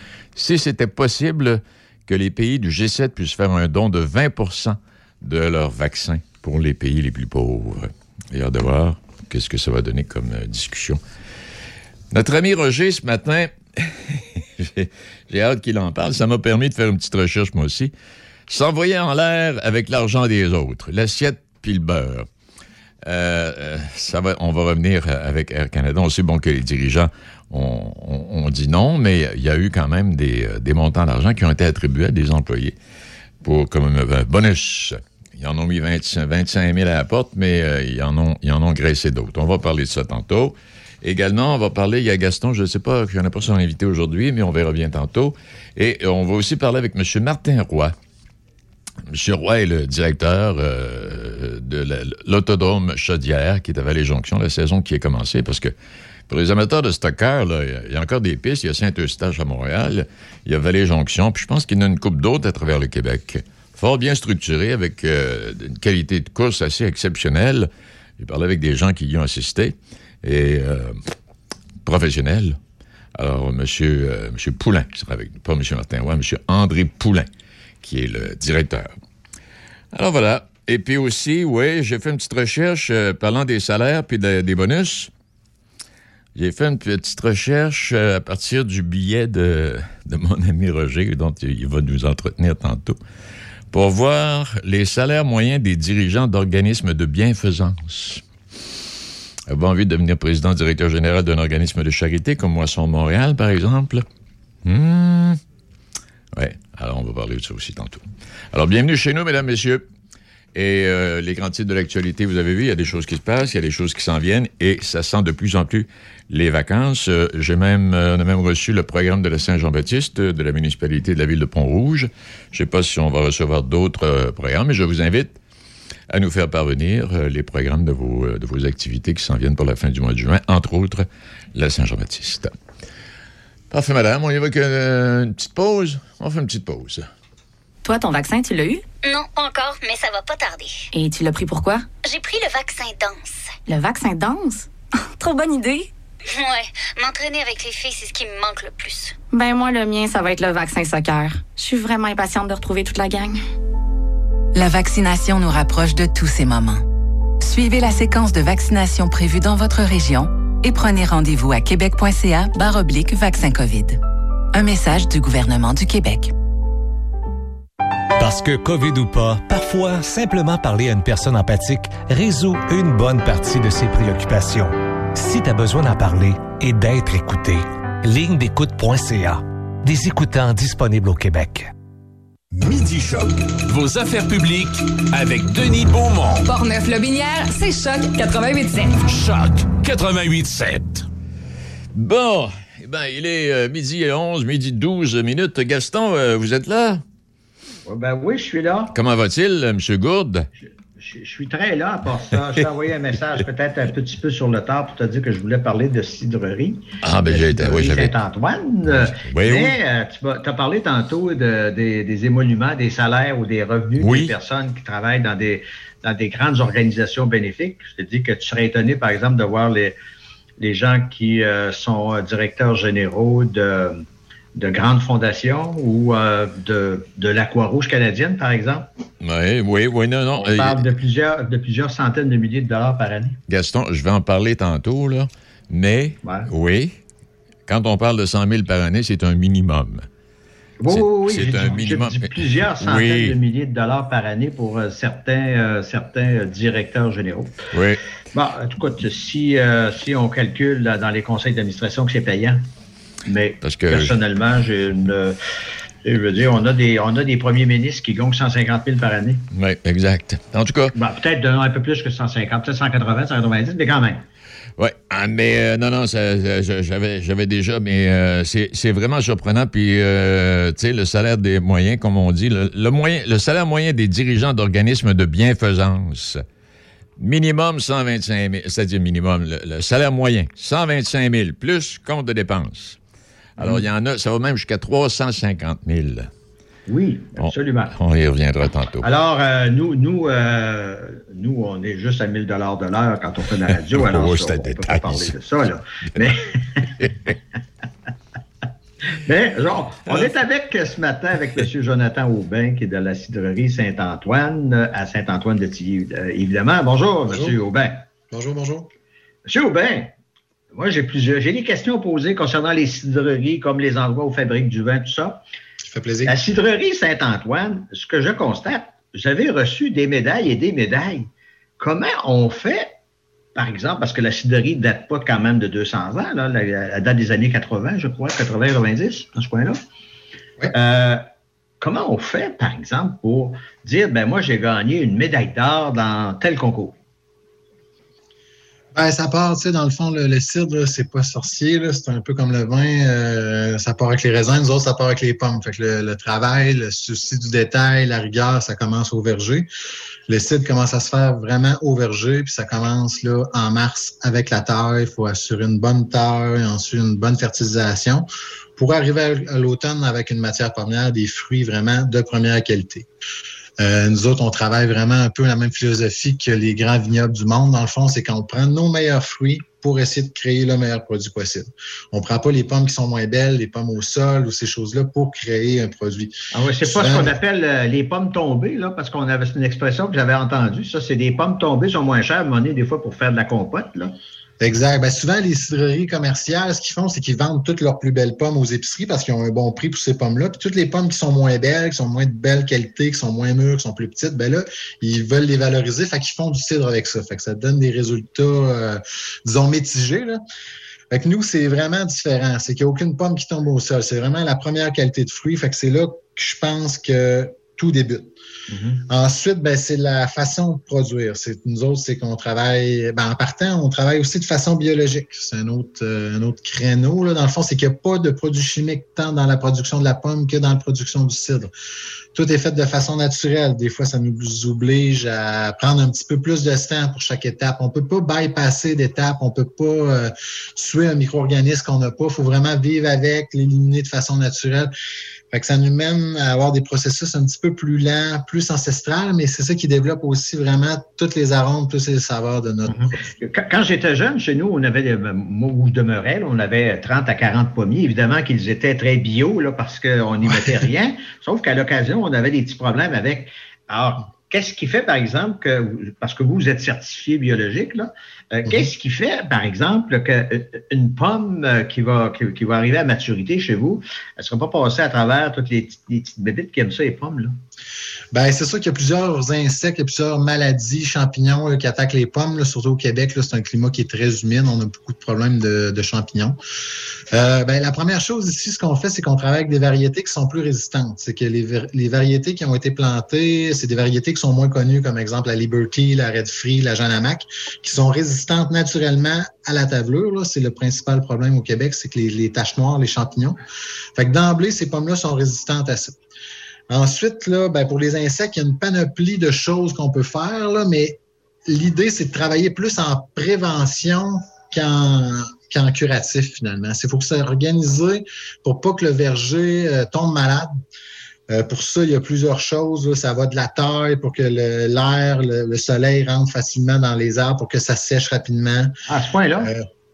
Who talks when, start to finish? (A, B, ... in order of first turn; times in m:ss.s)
0:00.4-0:11.0 A
0:12.1-0:17.9 A
0:18.5-0:22.3 A
0:23.0-0:32.8 A
0:33.4-0:47.9 A
0:49.1-0:55.7 A
0:56.3-1:07.7 A
1:08.2-1:11.0 A
1:11.8-1:12.6 A
1:13.1-1:17.3 A
1:17.8-1:18.9 A
1:19.9-1:25.1 A
1:26.4-1:33.0 A
1:33.7-1:38.2 A
1:39.5-1:44.0 A
1:44.6-1:45.4 A
1:46.3-1:49.8 A
1:50.5-2:05.4 A
2:06.1-2:12.5 A
2:13.7-2:17.1 A
2:17.8-2:18.8 B
2:19.0-2:20.8 C
2:20.9-2:21.9 B
2:22.0-2:23.5 C
2:23.6-2:25.9 B
2:26.3-2:29.1 C
2:29.3-2:33.4 B
2:34.5-2:36.8 D
2:37.4-2:44.0 D
2:44.5-2:46.3 D
2:48.2-3:01.7 E
3:02.6-3:06.5 F
3:06.5-3:09.0 G
3:09.0-3:11.0 F
3:11.9-3:17.0 A
3:17.8-3:18.9 H
3:18.9-3:20.5 A
3:21.0-3:40.0 H
3:27.0-3:28.1 A
3:28.9-3:29.8 A
3:34.0-3:34.3 A
3:40.6-3:44.0 H
3:44.5-3:48.9 H
3:49.2-3:50.8 A
3:50.4-3:53.4 H
3:53.5-3:57.0 A
3:56.2-3:56.5 H
3:57.7-4:00.1 A
4:00.8-4:07.6 H
4:00.9-4:03.4 A
4:07.7-4:08.0 A
4:08.3-4:12.7 H
4:13.3-4:15.4 H
4:13.6-4:14.1 A
4:16.0-4:19.4 H
4:19.5-4:20.9 A
4:20.9-4:24.2 H
4:24.8-4:36.4 A
4:37.2-4:43.0 A
4:43.6-4:46.3 A
4:43.6-4:43.8 H
4:46.9-4:47.9 H
4:47.4-4:49.1 A
4:49.0-4:56.9 H
4:53.9-4:55.3 A
4:57.0-4:57.3 A
4:59.2-5:08.0 H
5:07.3-5:07.6 I
5:08.3-5:08.9 I
5:09.4-5:10.1 H
5:10.7-5:15.4 H
5:15.8-5:16.4 I
5:16.2-5:21.3 H
5:21.8-5:22.9 H
5:23.5-5:29.8 H
5:30.7-5:31.2 H
5:31.8-5:36.9 H
5:38.9-5:49.7 I
5:50.3-6:03.1 I
6:03.8-6:17.4 I
6:16.5-6:24.2 H
6:24.6-6:40.4 I
6:41.1-6:48.4 I
6:48.7-6:49.0 H
6:49.1-7:01.7 I
7:02.3-7:14.9 I
7:15.5-7:23.1 I
7:22.9-7:47.6 H
7:48.3-7:56.6 I
7:57.3-8:13.6 I
8:14.2-8:16.2 I
8:16.9-8:30.7 I
8:31.5-8:38.9 I
8:39.1-8:39.7 H
8:39.6-8:39.9 I